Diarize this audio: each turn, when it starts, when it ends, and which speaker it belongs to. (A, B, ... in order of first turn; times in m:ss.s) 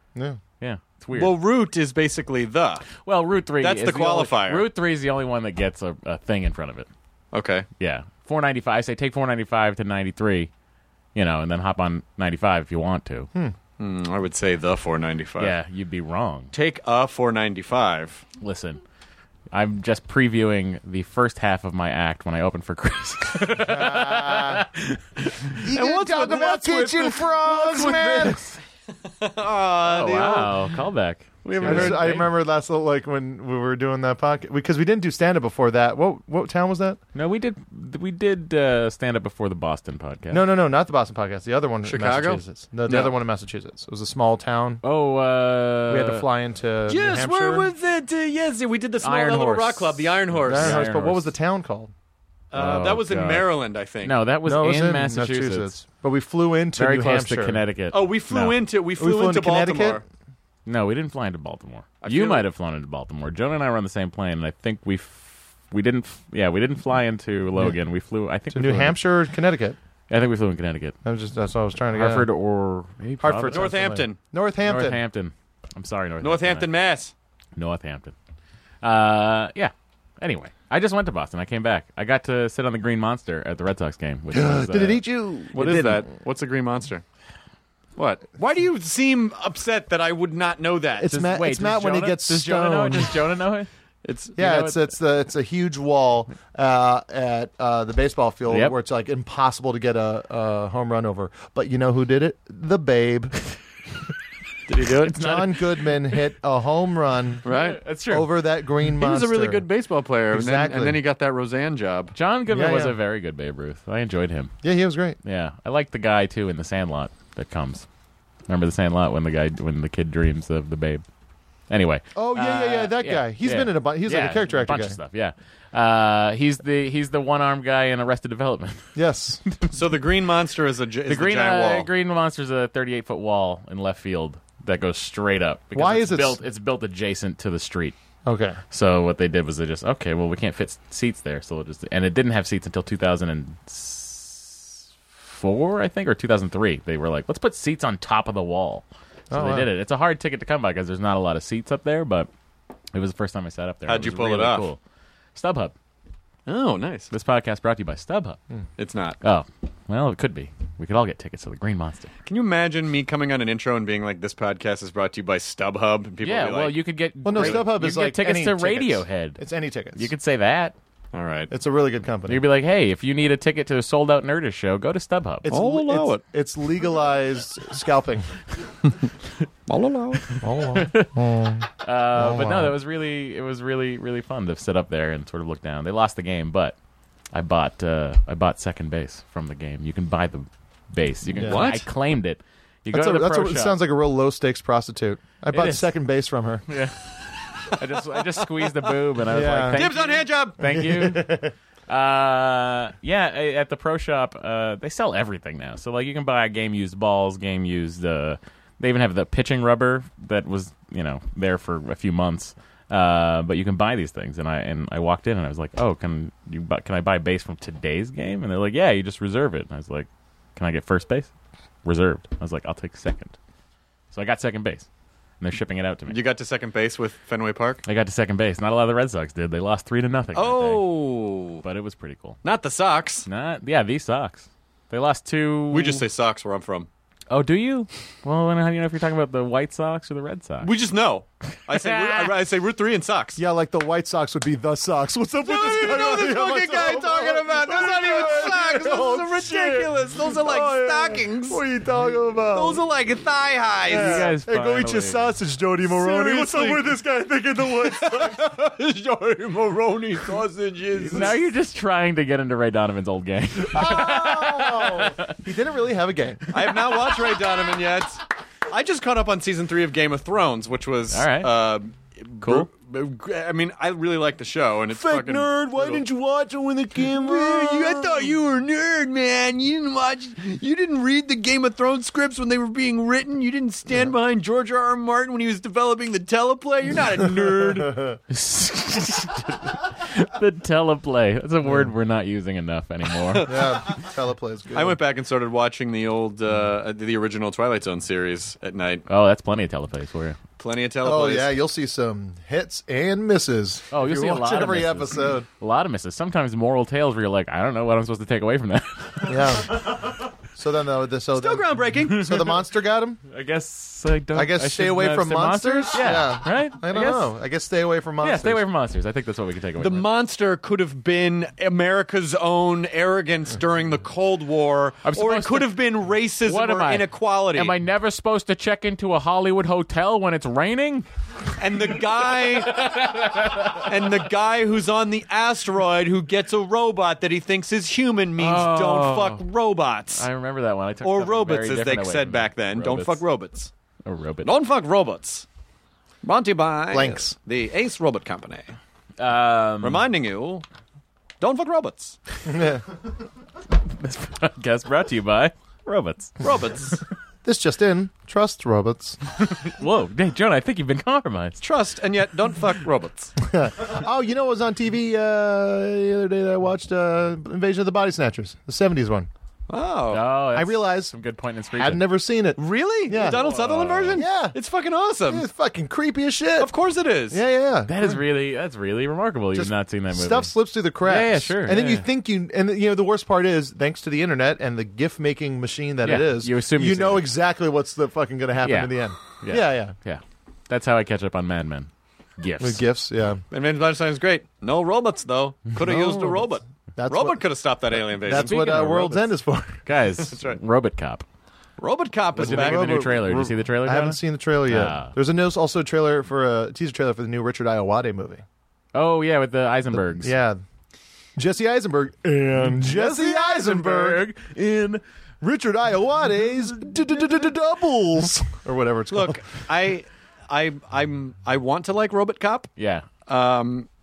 0:00.2-0:00.4 A
0:00.6-0:01.4 B
0:01.2-0:02.9 C
0:03.0-0:06.9 B
0:03.6-0:04.7 C
0:07.3-0:07.7 C
0:07.8-0:10.5 B
0:11.2-0:13.3 B
0:13.8-0:15.5 C
0:15.4-0:16.5 B
0:16.5-0:18.2 C
0:18.4-0:18.8 B
0:19.5-0:25.0 B
0:23.6-0:24.6 A
0:25.6-0:28.4 A
0:25.7-0:27.3 C
0:27.5-0:28.6 B
0:29.2-0:30.7 C
0:29.9-0:32.3 B
0:31.5-0:32.1 C
0:31.6-0:37.0 A
0:37.1-0:40.4 B
0:40.3-0:44.8 A
0:41.8-0:43.1 C
0:44.8-0:46.2 B
0:45.9-0:47.7 A
0:46.9-0:50.9 C
0:49.0-0:51.3 B
0:50.5-0:51.9 A
0:52.5-0:54.2 C
0:52.5-0:53.5 B
0:54.0-0:55.8 B
0:54.4-0:57.6 A
0:56.8-0:58.6 B
0:57.9-1:00.0 C
0:59.0-1:00.0 A
1:00.7-1:09.0 B
1:02.0-1:02.5 C
1:08.5-1:09.8 A
1:10.1-1:11.0 B
1:11.0-1:12.3 A
1:11.9-1:14.0 B
1:13.2-1:15.0 A
1:13.5-1:14.2 C
1:14.6-1:16.7 B
1:16.2-1:17.1 C
1:17.6-1:18.1 B
1:18.8-1:25.0 B
1:24.3-1:26.1 A
1:25.5-1:27.0 C
1:28.0-1:31.1 C
1:31.0-1:33.2 A
1:31.1-1:33.7 B
1:34.0-1:34.4 C
1:34.4-1:43.4 A
1:34.4-1:34.8 B
1:38.5-1:38.8 B
1:44.7-1:45.3 C
1:45.0-1:45.4 B
1:45.1-1:47.5 A
1:47.4-1:47.8 C
1:47.5-1:48.3 B
1:48.1-1:49.7 A
1:49.0-1:52.2 C
1:50.3-1:51.0 A
1:52.2-1:54.5 B
1:52.5-1:53.0 A
1:54.6-1:55.2 A
1:55.2-1:57.9 B
1:58.5-2:01.0 B
2:01.7-2:08.9 B
2:02.2-2:05.0 A
2:09.0-2:09.4 A
2:09.7-2:11.9 C
2:11.1-2:18.0 B
2:15.7-2:16.4 A
2:18.3-2:18.6 A
2:18.7-2:32.3 B
2:29.3-2:29.7 A
2:32.9-2:34.8 B
2:33.9-2:34.7 C
2:35.4-2:35.7 B
2:36.5-2:37.1 C
2:37.1-2:38.4 B
2:38.8-2:39.2 C
2:39.2-2:42.1 B
2:42.3-2:46.8 C
2:46.2-2:49.4 B
2:47.2-2:50.1 A
2:47.3-2:47.7 C
2:50.0-2:50.8 B
2:51.1-2:51.5 C
2:51.5-2:52.4 A
2:52.3-2:55.5 B
2:55.4-2:58.3 A
2:55.5-2:56.2 C
2:59.7-3:00.3 C
3:00.4-3:02.8 A
3:00.8-3:01.1 B
3:01.8-3:06.8 B
3:07.3-3:13.8 B
3:11.4-3:11.7 A
3:11.4-3:11.8 C
3:12.9-3:16.6 A
3:15.5-3:15.9 B
3:16.7-3:17.1 B
3:17.7-3:41.3 B
3:19.3-3:19.9 A
3:19.7-3:20.6 C
3:20.6-3:21.5 A
3:41.8-3:43.4 B
3:44.1-3:44.9 B
3:45.4-3:46.2 B
3:46.1-3:47.8 C
3:47.8-3:51.0 B
3:50.4-3:51.6 C
3:51.6-3:52.4 B
3:52.4-3:53.3 C
3:53.3-3:56.0 B
3:55.7-3:56.9 C
3:57.3-4:00.7 B
4:00.6-4:03.4 C
4:01.7-4:02.3 B
4:03.4-4:12.8 A
4:05.4-4:11.6 C
4:12.5-4:14.3 C
4:13.9-4:16.9 A
4:13.9-4:15.3 B
4:15.9-4:21.4 C
4:21.0-4:25.4 B
4:23.7-4:26.7 A
4:26.5-4:36.0 C
4:31.1-4:31.5 B
4:32.4-4:32.7 B
4:34.9-4:38.3 A
4:37.1-4:48.0 C
4:47.8-4:48.2 A
4:48.3-4:53.6 B
4:51.6-4:51.9 A
4:53.3-4:53.8 C
4:53.4-4:55.0 A
4:54.7-4:59.0 C
4:59.1-5:00.4 B
5:00.6-5:01.6 C
5:01.0-5:05.5 A
5:03.9-5:09.4 B
5:09.3-5:09.8 A
5:10.6-5:13.2 A
5:11.4-5:12.3 C
5:13.3-5:17.3 B
5:14.3-5:18.6 A
5:18.2-5:20.1 B
5:19.8-5:27.7 C
5:25.0-5:25.8 B
5:26.4-5:31.1 B
5:31.6-5:40.3 C
5:32.7-5:33.8 B
5:38.4-5:39.4 B
5:40.1-5:43.2 B
5:41.0-5:43.7 C
5:44.0-5:44.5 B
5:44.4-5:45.5 C
5:46.2-5:48.8 C
5:46.9-5:47.4 A
5:49.2-5:50.1 B
5:49.8-5:50.6 C
5:51.4-5:52.2 C
5:52.5-5:52.8 A
5:53.9-5:56.4 B
5:56.4-5:57.0 C
5:57.4-5:59.2 A
5:59.4-6:01.6 B
6:01.6-6:03.3 C
6:03.4-6:09.3 A
6:09.7-6:10.2 C
6:10.1-6:12.1 B
6:10.5-6:11.1 A
6:11.8-6:13.5 A
6:12.6-6:15.5 C
6:13.2-6:14.2 B
6:14.1-6:14.6 A
6:15.3-6:16.7 A
6:16.6-6:17.4 C
6:17.3-6:18.1 A
6:17.9-6:20.5 B
6:19.6-6:30.0 A
6:21.0-6:22.1 B
6:26.0-6:27.3 B
6:28.6-6:32.8 B
6:32.6-6:33.4 A
6:33.5-6:38.9 C
6:35.8-6:36.5 A
6:37.0-6:39.8 A
6:38.3-6:39.3 B
6:39.9-6:41.2 B
6:40.3-6:40.6 C
6:41.8-6:43.5 C
6:42.4-6:48.4 A
6:42.4-6:45.1 B
6:48.9-6:50.3 B
6:49.9-6:50.6 A
6:51.4-6:54.3 A
6:52.8-6:55.0 B
6:55.4-6:59.4 A
6:59.1-7:02.7 C
7:02.8-7:03.1 B
7:03.3-7:03.9 C